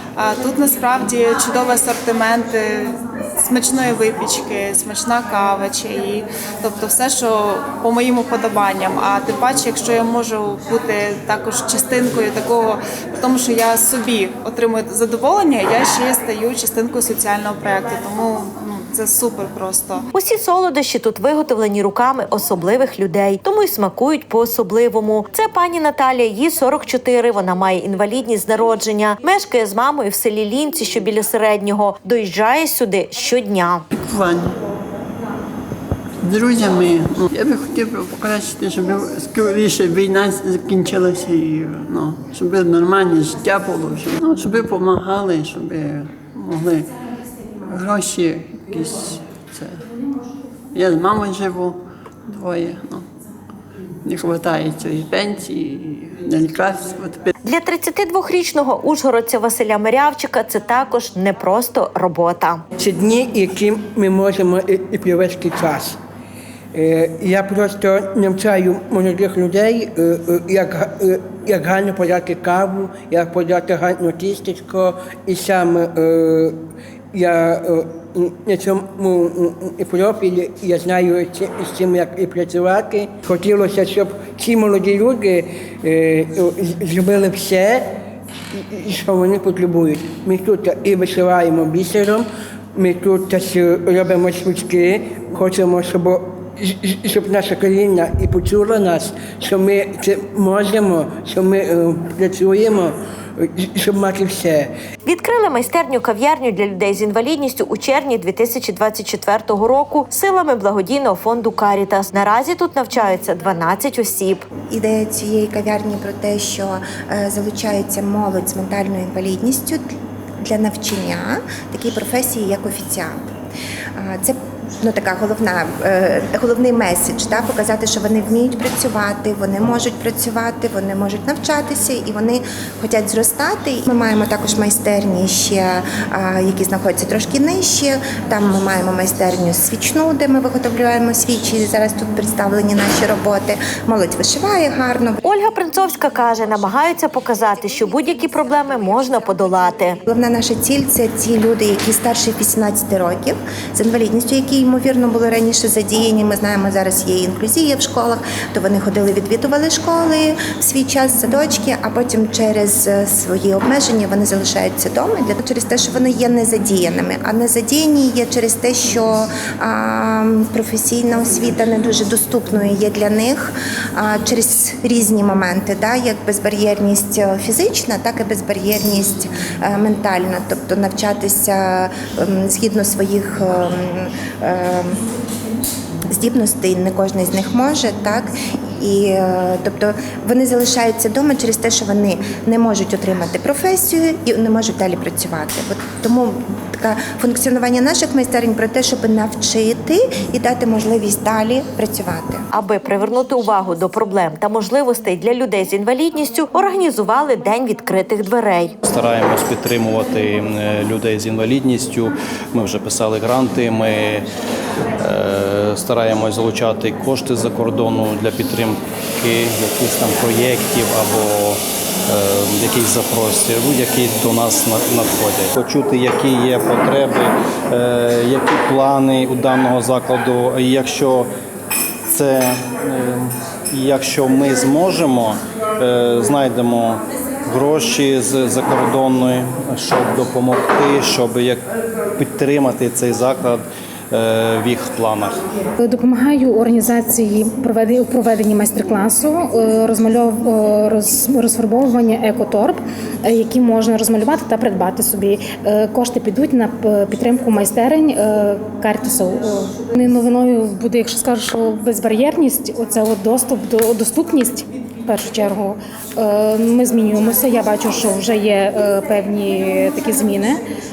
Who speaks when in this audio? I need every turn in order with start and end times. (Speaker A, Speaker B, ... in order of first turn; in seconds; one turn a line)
Speaker A: 0.1-20.1
Speaker B: 20.1-33.8
Speaker C: 34.0-34.5
Speaker C: 36.2-46.9
Speaker C: 47.7-49.7
Speaker C: 50.7-51.8
Speaker C: 52.3-53.0
Speaker C: 54.0-57.2
Speaker B: 57.4-62.6
Speaker D: 62.8-66.0
Speaker D: 66.7-76.6
Speaker D: 77.1-87.9
Speaker D: 88.5-104.7
Speaker B: 105.0-114.4
Speaker E: 114.7-123.2
Speaker E: 124.0-145.2
Speaker B: 145.2-150.0
Speaker E: 150.1-185.0
Speaker E: 186.1-202.4
Speaker B: 202.5-208.8
Speaker F: 208.8-214.2
Speaker F: 215.0-231.3
Speaker F: 232.1-245.4
Speaker G: 245.8-270.6